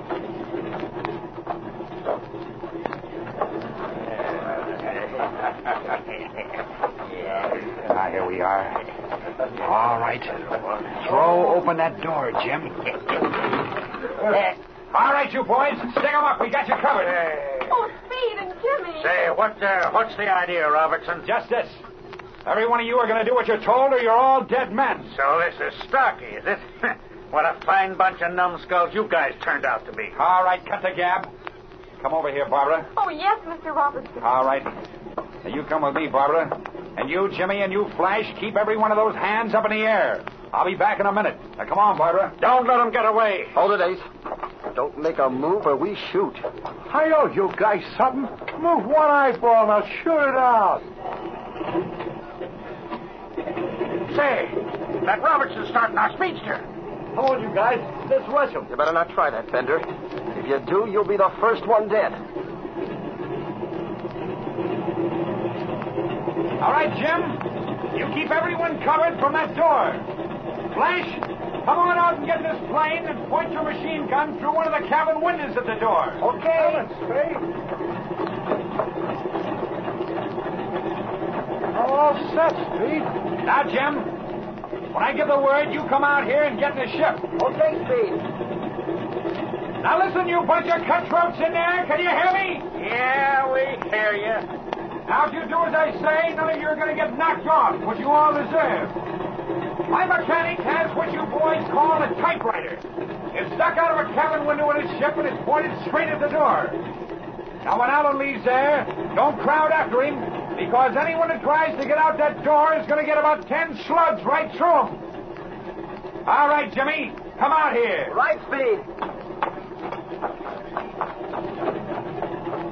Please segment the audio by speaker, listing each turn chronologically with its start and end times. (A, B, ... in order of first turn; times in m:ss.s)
0:07.7-0:08.8 A
0:09.6-0:13.0 A
0:14.9-0:17.2 A
0:17.7-0:19.1 B
0:19.0-0:21.2 C
0:21.2-0:21.8 A
0:22.4-0:25.1 A
0:25.1-0:30.1 C
0:30.1-0:31.3 A
0:32.0-0:32.9 A
0:32.9-0:34.2 B
0:34.2-0:34.7 A
0:35.4-0:42.3 A
0:42.4-0:43.7 C
0:43.5-0:44.0 D
0:44.7-0:46.4 D
0:46.9-0:50.8 E
0:54.1-0:56.6 C
0:57.1-0:58.6 C
0:58.7-1:02.2 D
1:06.6-1:10.0 A
1:10.7-1:16.8 A
1:16.2-1:17.4 E
1:21.7-1:23.1 E
1:23.4-1:24.1 A
1:24.9-1:27.3 A
1:27.4-1:28.2 D
1:29.8-1:32.7 A
1:32.8-1:34.5 C
1:35.1-1:38.9 A
1:39.9-1:46.8 A
1:47.6-1:55.0 A
1:56.2-1:58.1 A
1:58.1-1:58.8 D